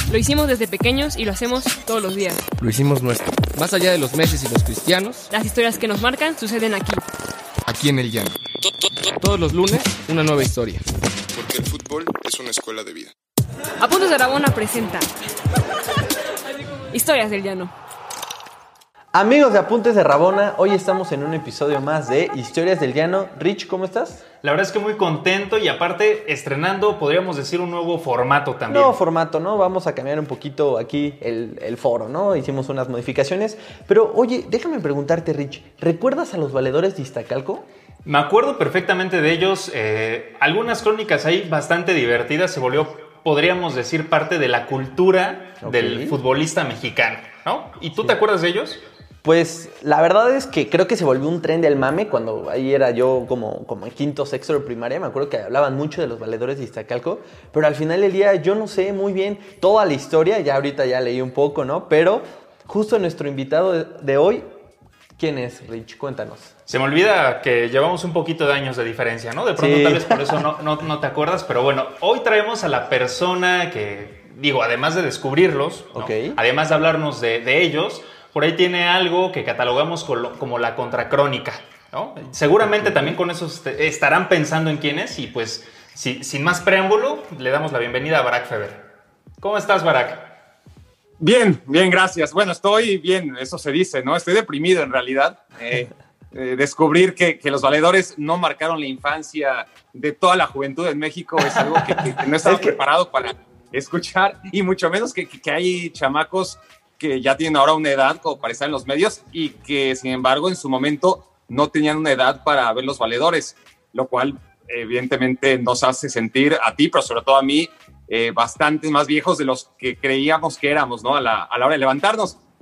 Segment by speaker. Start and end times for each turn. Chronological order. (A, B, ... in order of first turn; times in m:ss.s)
0:00.1-0:02.4 A
0:02.6-0:05.3 B
0:05.3-0:07.0 A
0:07.7-0:08.4 C
0:09.1-0:10.8 B
0:11.4-0:13.1 C
0:13.8-0:15.1 A
0:16.9-0:17.7 A
0:19.1-0:24.2 D
0:24.4-0:29.0 E
0:28.7-0:37.7 D
0:38.0-0:48.8 E
0:45.6-0:46.2 D
0:49.2-1:04.5 D
1:05.2-1:06.5 D
1:06.7-1:28.8 E
1:09.6-1:10.2 D
1:16.0-1:16.4 D
1:22.7-1:23.1 D
1:29.4-1:30.3 E
1:31.2-2:02.4 F
1:42.4-1:42.8 D